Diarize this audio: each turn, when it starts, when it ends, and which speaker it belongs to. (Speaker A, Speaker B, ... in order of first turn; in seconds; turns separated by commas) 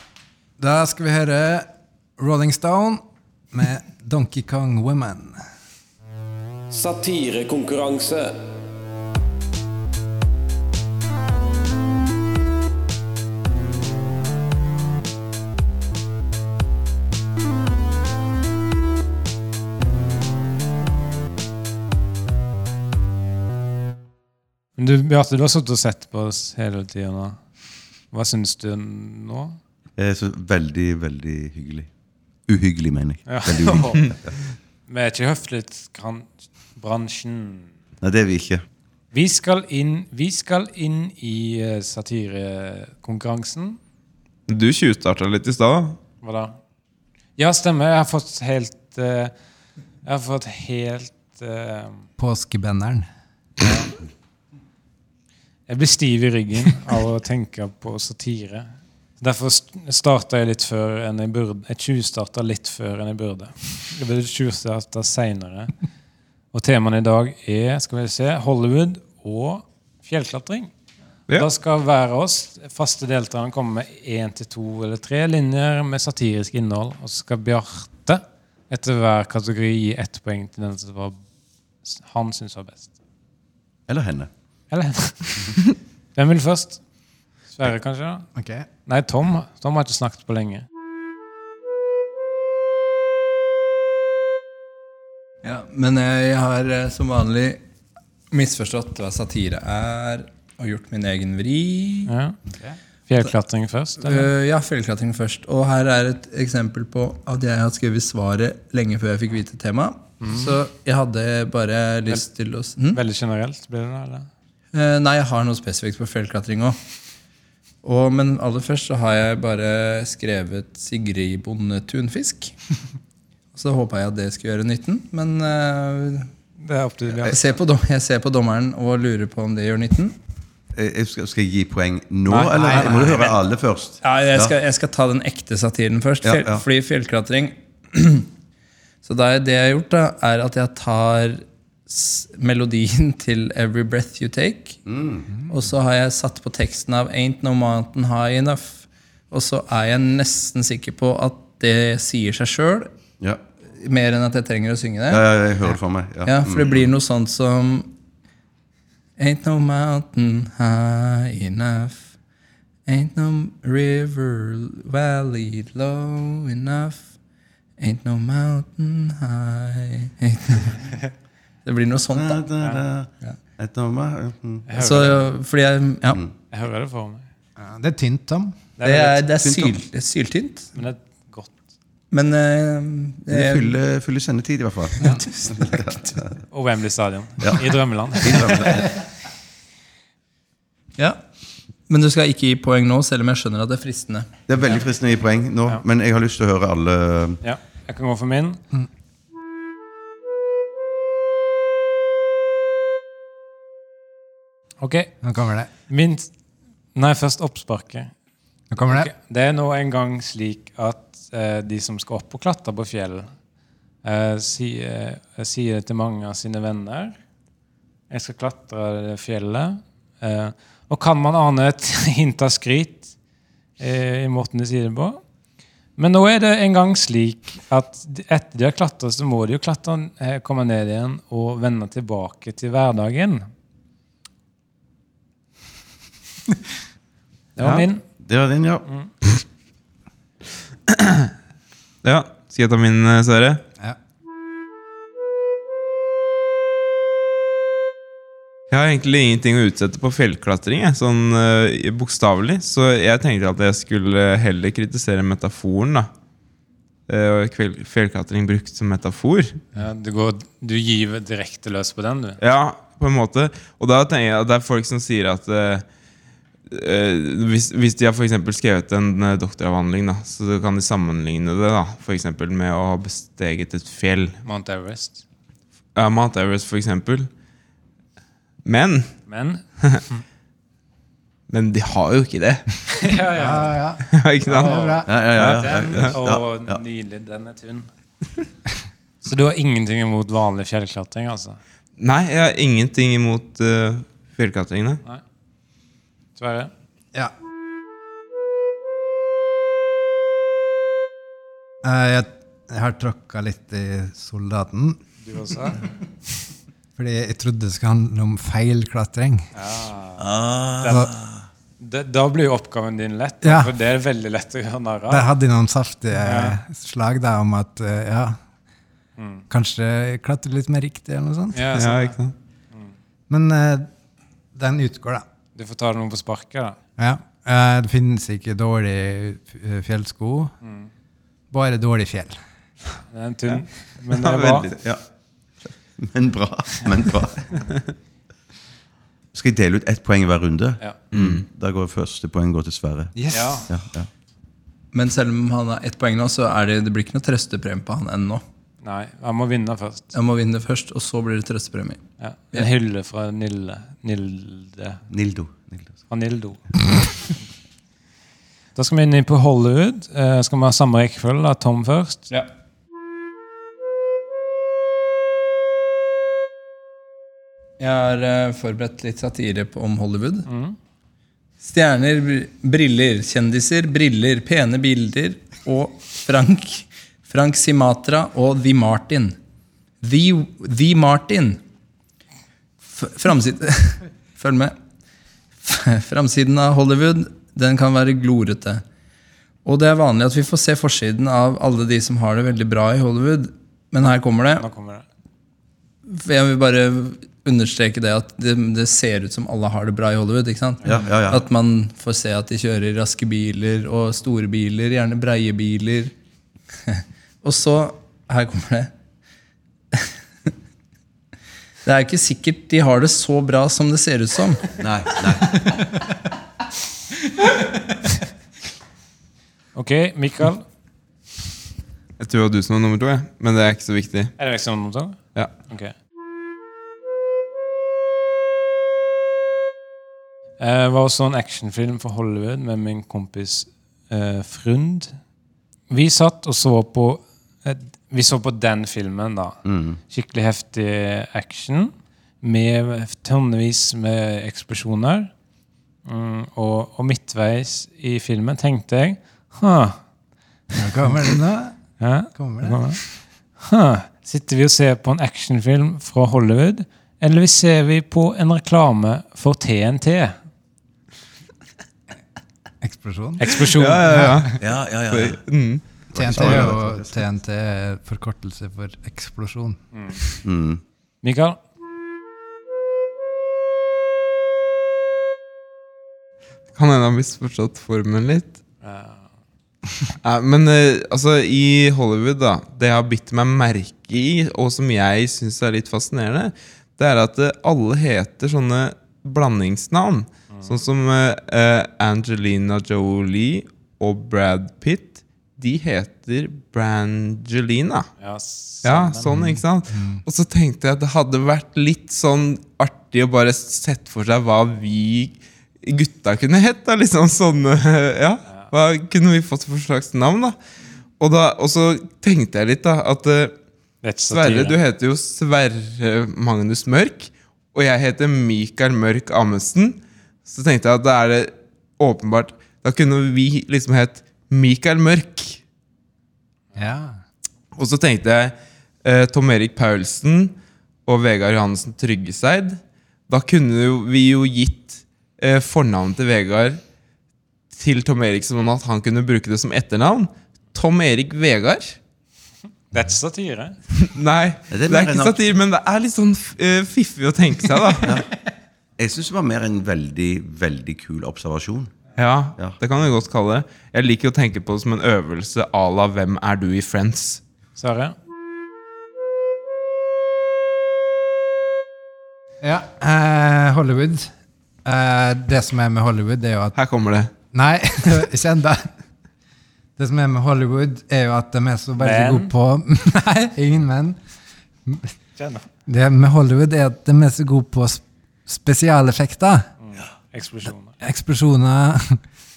Speaker A: 0.6-5.4, Speaker B: 6.7-8.4, Speaker B: 24.8-27.4, Speaker B: 28.1-29.6, Speaker C: 30.0-31.9, Speaker C: 32.5-34.4, Speaker B: 33.3-34.1, Speaker B: 34.9-37.7, Speaker C: 38.0-38.6, Speaker B: 39.1-43.8, Speaker D: 44.5-46.0, Speaker B: 46.2-46.6, Speaker B: 47.4-49.3, Speaker B: 50.0-52.0, Speaker A: 52.2-53.1, Speaker B: 53.6-53.9, Speaker B: 55.7-65.7, Speaker B: 66.5-70.7, Speaker B: 71.3-81.2, Speaker B: 81.8-82.9, Speaker C: 83.9-84.3, Speaker B: 84.7-85.6, Speaker B: 86.1-86.8, Speaker B: 87.5-88.3, Speaker A: 88.3-88.7, Speaker B: 88.8-90.7, Speaker E: 95.4-97.6, Speaker E: 98.3-102.1, Speaker B: 102.1-102.5, Speaker B: 103.1-104.3, Speaker E: 104.0-113.0, Speaker B: 110.2-110.5, Speaker B: 112.9-114.3, Speaker E: 114.7-116.8, Speaker E: 117.8-122.5, Speaker E: 123.5-126.3, Speaker B: 126.6-127.4, Speaker E: 127.2-130.2, Speaker C: 130.7-134.5, Speaker B: 132.2-133.3, Speaker E: 134.0-138.3, Speaker C: 136.2-136.6, Speaker E: 139.0-144.8, Speaker C: 144.9-145.3, Speaker E: 145.5-152.9, Speaker C: 153.2-153.4, Speaker E: 153.7-155.2, Speaker C: 155.1-156.9, Speaker E: 156.2-157.9, Speaker E: 159.2-162.1, Speaker E: 162.8-167.1, Speaker E: 167.8-170.9, Speaker E: 171.6-172.4, Speaker C: 172.1-174.7, Speaker B: 174.7-175.3, Speaker E: 174.7-176.2, Speaker B: 176.5-177.2, Speaker A: 177.6-178.6, Speaker B: 178.8-179.3, Speaker E: 178.8-180.7, Speaker C: 179.4-179.7, Speaker B: 180.7-181.6, Speaker E: 182.1-183.8, Speaker C: 183.3-186.3, Speaker E: 185.0-186.0, Speaker B: 186.5-188.8, Speaker C: 187.4-188.9, Speaker E: 191.9-194.3, Speaker C: 194.5-197.4, Speaker B: 197.4-198.6, Speaker B: 204.8-205.1, Speaker A: 205.2-205.7, Speaker B: 205.9-206.3, Speaker B: 206.9-208.1, Speaker A: 208.7-209.1, Speaker B: 208.8-213.3, Speaker B: 214.0-217.2, Speaker B: 218.1-223.1, Speaker B: 223.8-225.2, Speaker B: 226.0-233.5, Speaker B: 237.6-238.0, Speaker C: 238.2-238.8, Speaker D: 240.9-241.3, Speaker D: 242.0-243.6, Speaker D: 248.7-256.1, Speaker D: 257.1-259.6, Speaker B: 259.7-262.4, Speaker D: 262.4-265.9, Speaker D: 266.7-274.4, Speaker B: 274.4-275.2, Speaker D: 275.9-277.3, Speaker D: 278.6-279.1, Speaker B: 279.3-280.2, Speaker D: 281.5-282.8, Speaker B: 283.0-283.8, Speaker A: 283.3-285.6, Speaker D: 284.1-285.0, Speaker B: 284.5-287.9, Speaker C: 285.1-286.8, Speaker B: 289.2-291.6, Speaker D: 292.0-295.0, Speaker B: 296.4-296.7, Speaker A: 301.8-305.0, Speaker B: 305.2-305.8, Speaker A: 306.9-309.5, Speaker B: 309.5-311.1, Speaker C: 310.2-311.4, Speaker A: 310.9-311.1, Speaker B: 311.8-315.3, Speaker A: 313.4-313.7, Speaker A: 315.1-318.4, Speaker B: 316.2-316.6, Speaker B: 319.2-319.4, Speaker A: 319.5-321.7, Speaker B: 321.5-322.1, Speaker D: 321.7-322.3, Speaker A: 323.3-323.9, Speaker A: 324.5-325.2, Speaker B: 325.5-326.8, Speaker A: 327.0-330.5, Speaker B: 330.6-330.9, Speaker A: 331.5-332.4, Speaker B: 333.1-334.7, Speaker C: 334.2-335.0, Speaker C: 336.0-337.7, Speaker C: 339.3-343.1, Speaker D: 341.1-341.4, Speaker A: 343.1-343.7, Speaker B: 343.3-343.7, Speaker C: 343.7-344.1, Speaker E: 344.9-348.4, Speaker B: 348.8-350.1, Speaker E: 350.1-352.0, Speaker B: 352.2-355.0, Speaker C: 355.1-355.9, Speaker B: 356.1-356.6, Speaker B: 358.7-362.3, Speaker E: 367.8-370.5, Speaker B: 370.5-370.8, Speaker E: 371.6-379.4, Speaker E: 380.0-381.6, Speaker E: 382.8-384.7, Speaker E: 385.6-388.8, Speaker E: 389.6-394.6, Speaker B: 394.6-395.0, Speaker E: 396.1-406.1, Speaker C: 400.8-401.4, Speaker E: 406.9-408.9, Speaker E: 411.8-414.8, Speaker C: 414.8-415.7, Speaker B: 419.7-420.6, Speaker D: 422.2-424.3, Speaker B: 424.4-425.9, Speaker B: 430.6-435.2, Speaker B: 435.9-445.3, Speaker C: 439.6-440.0, Speaker B: 446.0-450.0, Speaker A: 450.7-451.8, Speaker B: 452.0-453.0, Speaker A: 452.3-452.8, Speaker B: 453.6-460.4, Speaker A: 462.8-464.5, Speaker B: 463.4-464.3, Speaker D: 463.7-466.6, Speaker C: 464.6-465.4, Speaker C: 466.1-467.2, Speaker A: 466.1-469.8, Speaker B: 469.9-470.2, Speaker C: 470.4-470.8, Speaker B: 471.2-471.6, Speaker D: 476.7-478.5, Speaker B: 478.8-479.3, Speaker D: 480.2-498.1, Speaker B: 498.2-499.3, Speaker D: 498.8-510.6, Speaker A: 499.3-500.2, Speaker D: 511.2-513.5, Speaker B: 514.0-514.8, Speaker D: 514.3-525.6, Speaker A: 526.7-527.2, Speaker D: 527.7-536.8, Speaker D: 537.7-542.0, Speaker B: 542.9-543.8, Speaker D: 543.9-548.1, Speaker C: 544.7-545.4, Speaker C: 549.0-551.9, Speaker D: 552.1-557.4, Speaker B: 557.8-558.1, Speaker A: 562.6-564.3, Speaker A: 564.8-566.7, Speaker D: 566.8-567.3, Speaker A: 567.5-568.9, Speaker A: 570.0-574.2, Speaker B: 572.0-572.5, Speaker A: 574.9-575.1, Speaker B: 575.4-575.6, Speaker A: 575.9-579.7, Speaker B: 579.8-581.0, Speaker A: 581.0-582.2